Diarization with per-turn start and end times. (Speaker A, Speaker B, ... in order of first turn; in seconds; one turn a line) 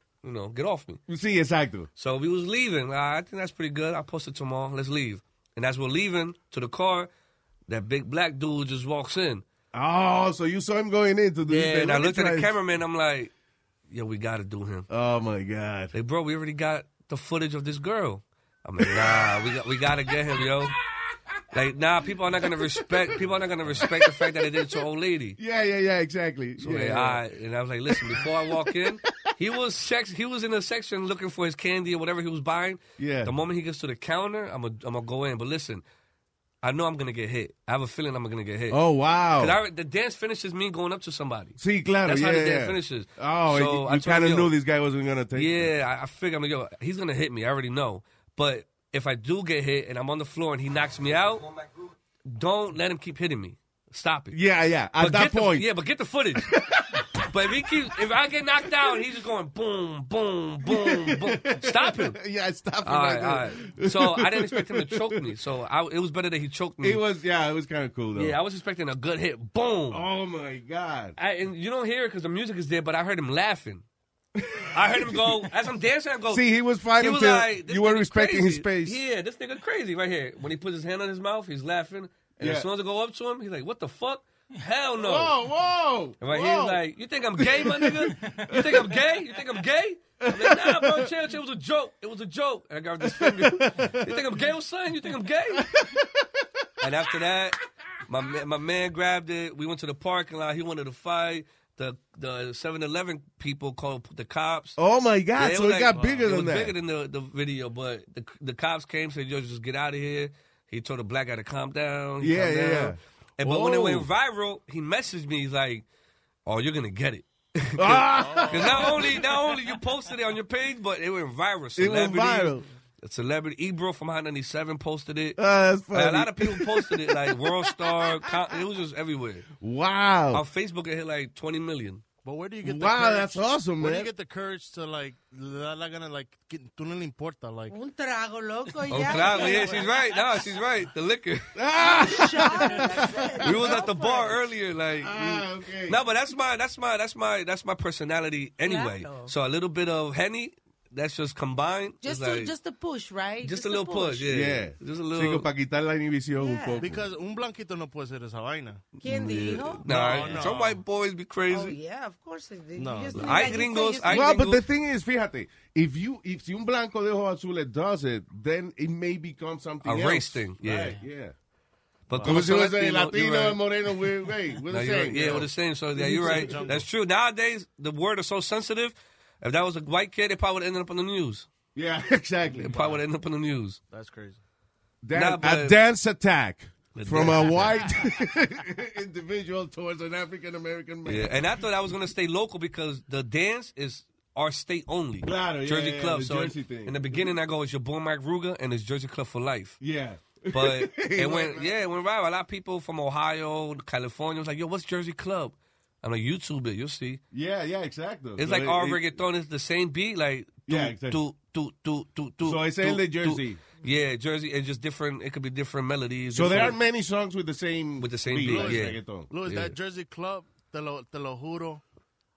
Speaker A: 0.2-1.0
Speaker B: 1.1-1.9
Speaker A: 2.0-7.1
Speaker A: 7.7-9.4
Speaker B: 9.7-12.5
Speaker A: 11.5-13.3
Speaker A: 13.9-14.9
Speaker B: 14.9-15.9
Speaker A: 15.9-20.8
Speaker B: 18.8-19.8
Speaker A: 21.5-25.4
Speaker B: 22.3-24.7
Speaker B: 25.4-27.2
Speaker A: 26.6-35.8
Speaker B: 27.9-29.3
Speaker B: 33.0-33.3
Speaker A: 36.6-38.8
Speaker B: 38.7-39.6
Speaker A: 39.4-44.5
Speaker B: 41.6-45.7
Speaker A: 45.3-54.4
Speaker B: 54.3-55.7
Speaker A: 55.0-56.6
Speaker B: 56.4-57.7
Speaker A: 57.1-62.2
Speaker B: 58.6-59.0
Speaker B: 60.6-65.3
Speaker A: 62.8-67.0
Speaker B: 66.8-68.4
Speaker A: 68.1-70.0
Speaker B: 69.9-71.2
Speaker A: 71.2-73.8
Speaker B: 74.3-75.5
Speaker A: 74.7-76.5
Speaker B: 76.3-79.0
Speaker A: 77.0-85.3
Speaker B: 82.4-82.7
Speaker B: 85.0-86.8
Speaker A: 86.2-95.7
Speaker B: 87.4-88.9
Speaker B: 90.2-91.1
Speaker B: 93.0-94.3
Speaker B: 95.5-96.9
Speaker A: 96.8-104.8
Speaker B: 104.8-106.7
Speaker A: 105.4-115.8
Speaker B: 112.2-114.1
Speaker A: 116.5-125.4
Speaker B: 117.8-119.3
Speaker C: 118.1-119.1
Speaker B: 121.8-122.7
Speaker B: 125.4-128.5
Speaker A: 125.9-129.5
Speaker B: 129.6-130.4
Speaker A: 130.3-132.0
Speaker C: 132.2-137.8
Speaker B: 132.6-134.1
Speaker D: 137.7-139.8
Speaker A: 138.9-141.6
Speaker C: 139.1-139.9
Speaker B: 141.5-143.7
Speaker D: 141.8-144.4
Speaker A: 143.4-152.5
Speaker B: 145.0-146.0
Speaker D: 148.6-149.3
Speaker D: 152.0-154.2
Speaker A: 153.4-155.5
Speaker B: 154.2-157.1
Speaker D: 156.4-156.8
Speaker C: 156.8-158.9
Speaker D: 159.0-160.2
Speaker A: 159.0-161.8
Speaker C: 159.8-160.8
Speaker D: 161.5-164.3
Speaker C: 162.8-163.6
Speaker A: 163.1-164.6
Speaker B: 164.1-171.3
Speaker A: 169.8-171.0
Speaker A: 172.1-173.7
Speaker C: 172.1-172.4
Speaker B: 172.2-175.5
Speaker A: 174.7-181.5
Speaker C: 175.3-176.8
Speaker B: 176.2-176.5
Speaker B: 181.7-182.8
Speaker C: 182.6-183.0
Speaker A: 182.6-183.8
Speaker C: 183.9-184.4
Speaker B: 185.0-191.6
Speaker A: 185.1-185.8
Speaker A: 186.9-187.9
Speaker A: 191.0-199.8
Speaker B: 195.2-197.3
Speaker B: 199.8-201.7
Speaker A: 200.5-207.2
Speaker B: 207.3-209.2
Speaker A: 208.4-216.8
Speaker B: 210.7-211.2
Speaker B: 212.4-213.6
Speaker B: 216.3-219.3
Speaker A: 218.0-219.7
Speaker C: 218.4-221.8